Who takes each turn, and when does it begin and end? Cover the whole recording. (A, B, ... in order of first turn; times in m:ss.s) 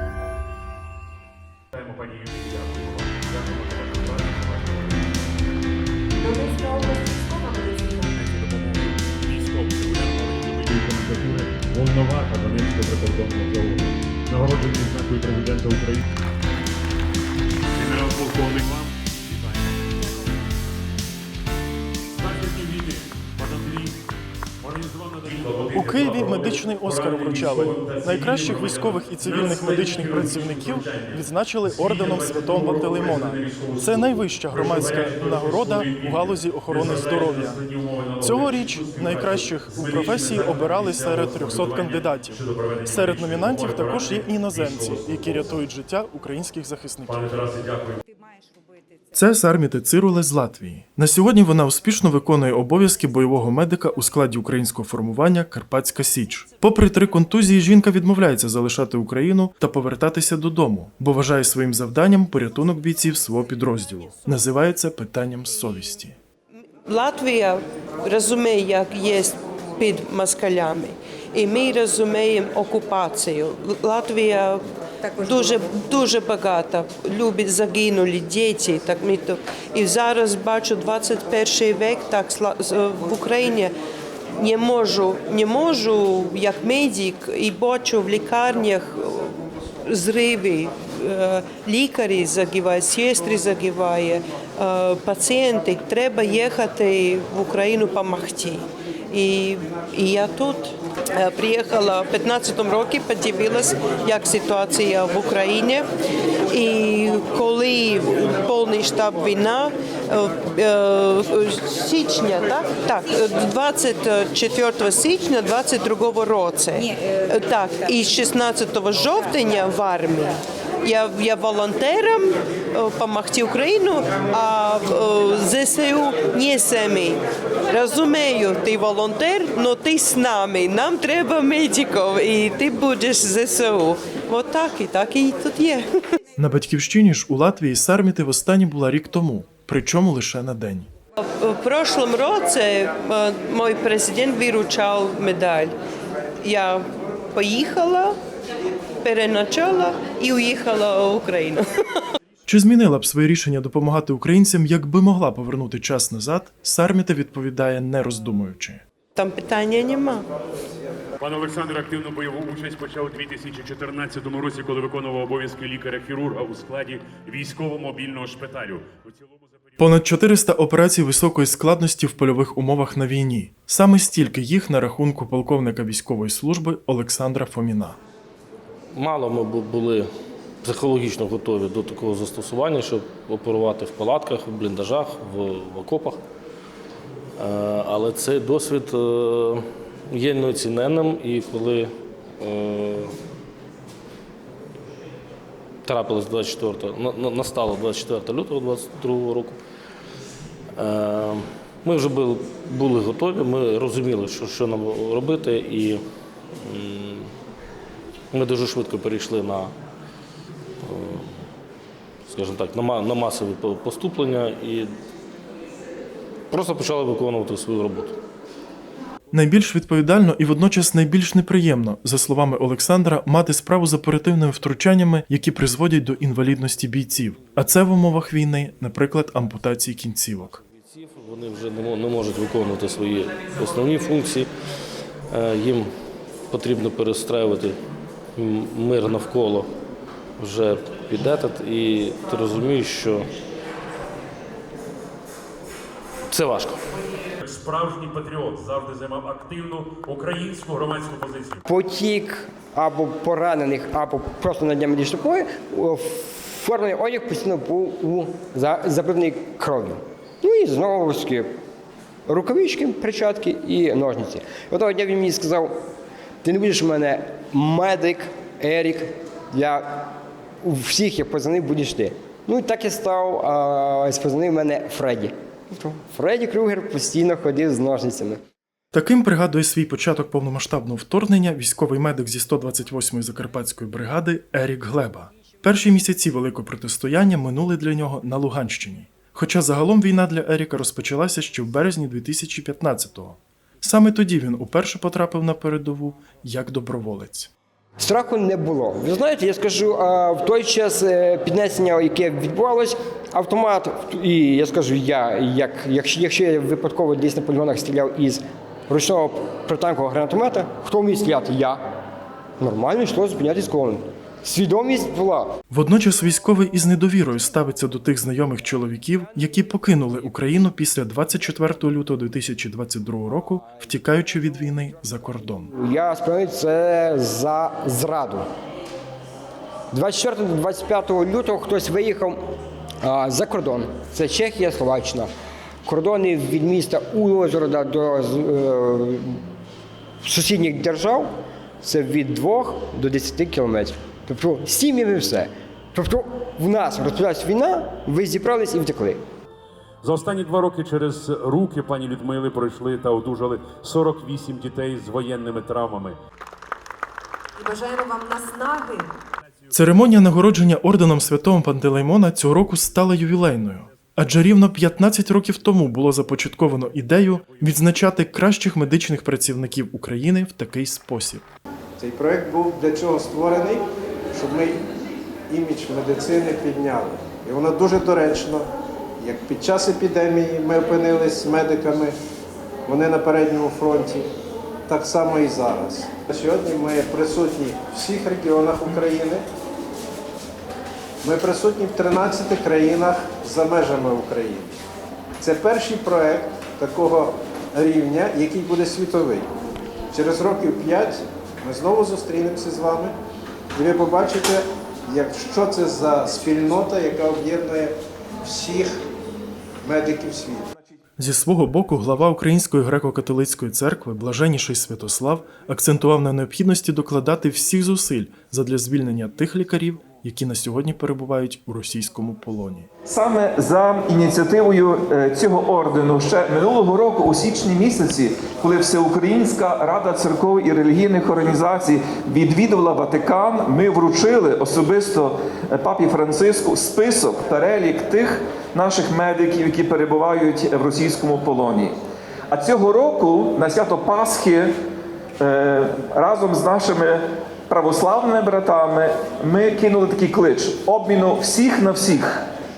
0:01.8-0:05.0 A
0:06.2-0:08.1 B
0:08.2-0:16.1 A
0:17.8-0:19.7 A
0:22.2-0:24.0 A
0:24.6-0:45.5 A
0:25.7-0:37.6 C
0:38.2-0:47.2 C
0:47.1-0:48.0 A
0:49.1-1:06.2 C
1:06.8-1:14.6 D
1:15.1-1:23.7 D
1:24.4-1:45.8 D
1:46.5-2:15.9 D
2:16.4-2:20.9 C
2:21.2-2:25.7 D
2:26.4-2:28.2 D
2:29.0-2:32.0 D
2:32.5-2:38.8 C
2:39.2-2:40.2 D
2:41.2-2:49.6 A
2:49.8-2:58.0 C
2:58.9-3:00.1 E
3:00.6-3:06.2 E
3:07.4-3:13.2 E
3:15.8-3:19.6 E
3:20.8-3:26.0 E
3:26.6-3:27.3 E
3:28.3-3:29.7 E
3:30.8-3:31.4 E
3:32.3-3:34.9 E
3:36.5-3:38.2 E
3:39.3-3:50.6 C
3:50.5-3:54.5 E
3:55.3-3:55.9 E
3:56.5-3:57.8 E
3:58.4-3:59.7 E
4:00.4-4:03.3 E
4:06.3-4:06.8 E
4:07.4-4:11.6 A
4:11.7-4:21.5 F
4:22.3-4:25.7 F
4:26.4-4:30.1 F
4:30.6-4:38.4 F
4:38.9-4:57.5 C
4:58.0-5:11.8 F
5:12.6-5:15.5 F
5:15.7-5:25.7 C
5:25.8-5:28.4 F
5:29.9-5:32.4 F
5:33.0-5:35.3 F
5:35.8-5:39.4 F
5:40.2-5:41.3 F
5:41.8-5:49.2 F
5:50.0-5:56.2 A
5:57.6-5:59.1 B
5:59.7-6:11.4 C
6:12.0-6:14.8 G
6:15.5-6:18.7 G
6:19.2-6:22.2 G
6:22.9-6:24.3 G
6:24.9-6:29.4 G
6:31.2-6:34.8 G
6:35.4-6:39.5 G
6:40.1-6:43.1 G
6:43.8-6:48.9 G
6:49.8-6:50.7 G
6:51.2-7:02.9 C
7:03.0-7:22.0 H
7:22.5-7:24.7 H
7:25.4-7:32.4 H